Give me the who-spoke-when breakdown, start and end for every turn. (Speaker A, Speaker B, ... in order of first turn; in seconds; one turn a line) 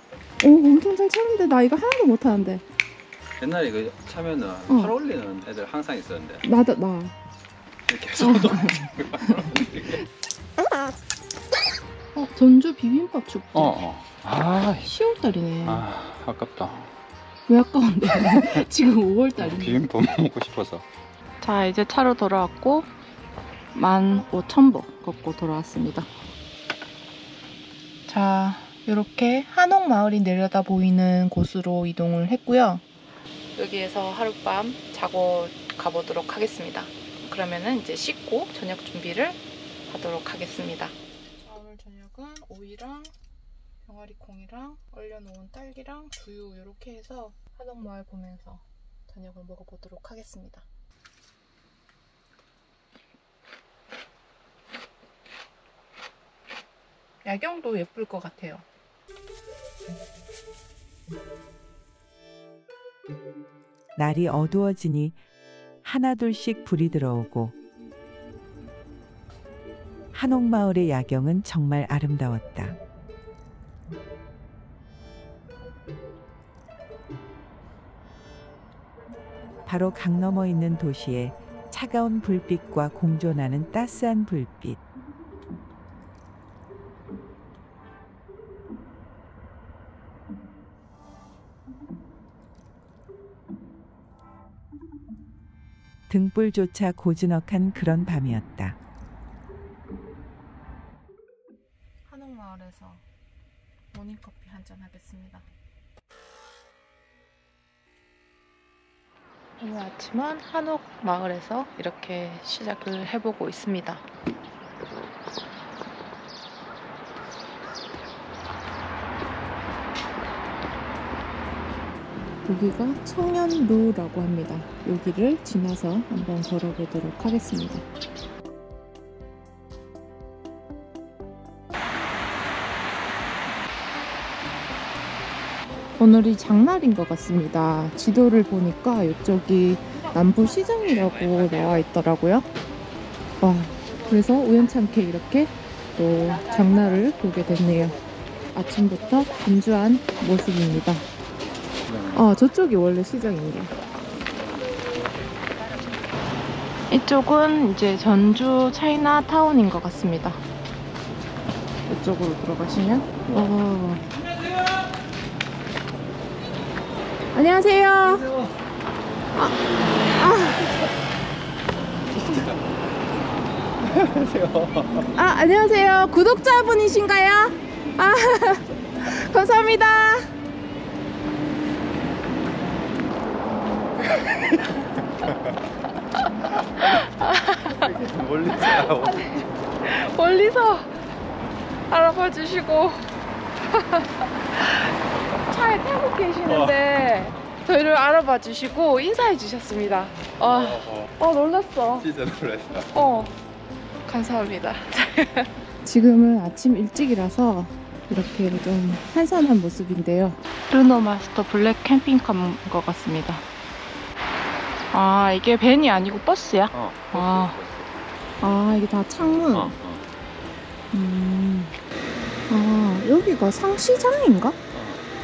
Speaker A: 0.4-2.6
Speaker B: 3.4-6.5
Speaker A: 4.7-5.0
Speaker A: 6.4-7.2
Speaker B: 7.9-10.1
Speaker A: 8.2-9.5
Speaker A: 10.6-11.0
Speaker A: 12.2-13.8
Speaker B: 13.5-14.9
Speaker A: 14.8-15.9
Speaker B: 15.6-16.9
Speaker A: 17.5-19.8
Speaker B: 18.2-18.6
Speaker B: 19.4-20.9
Speaker A: 21.4-22.9
Speaker A: 23.7-26.1
Speaker A: 28.1-32.9
Speaker A: 33.6-43.1
Speaker A: 43.8-50.6
Speaker A: 57.2-58.6
Speaker C: 64.0-65.2
Speaker C: 65.8-67.5
Speaker C: 70.1-72.8
Speaker C: 79.7-84.8
Speaker C: 96.1-98.8
Speaker A: 102.1-103.0
Speaker A: 103.9-105.5
Speaker A: 109.6-114.0
Speaker A: 122.5-127.8
Speaker A: 136.0-142.5
Speaker B: 140.8-141.8
Speaker A: 143.4-148.0
Speaker A: 148.5-151.1
Speaker B: 151.9-152.3
Speaker A: 152.2-153.7
Speaker A: 156.9-160.4
Speaker A: 161.9-164.0
Speaker B: 163.3-163.5
Speaker A: 167.3-168.2
Speaker B: 168.0-168.6
Speaker A: 169.3-170.6
Speaker B: 172.1-172.6
Speaker B: 173.8-175.1
Speaker A: 175.2-180.3
Speaker B: 184.0-185.6
Speaker B: 186.5-187.1
Speaker A: 186.8-187.8
Speaker B: 187.6-189.5
Speaker A: 188.5-191.0
Speaker A: 191.9-193.1
Speaker A: 193.7-194.9
Speaker A: 195.4-202.1
Speaker B: 196.5-196.8
Speaker B: 200.4-201.1
Speaker B: 201.9-203.0
Speaker A: 202.9-203.3
Speaker A: 204.1-213.4
Speaker A: 214.9-217.6
Speaker B: 216.7-217.9
Speaker A: 218.4-219.8
Speaker B: 219.5-220.1
Speaker A: 220.9-221.8
Speaker A: 222.5-224.6
Speaker B: 224.7-225.0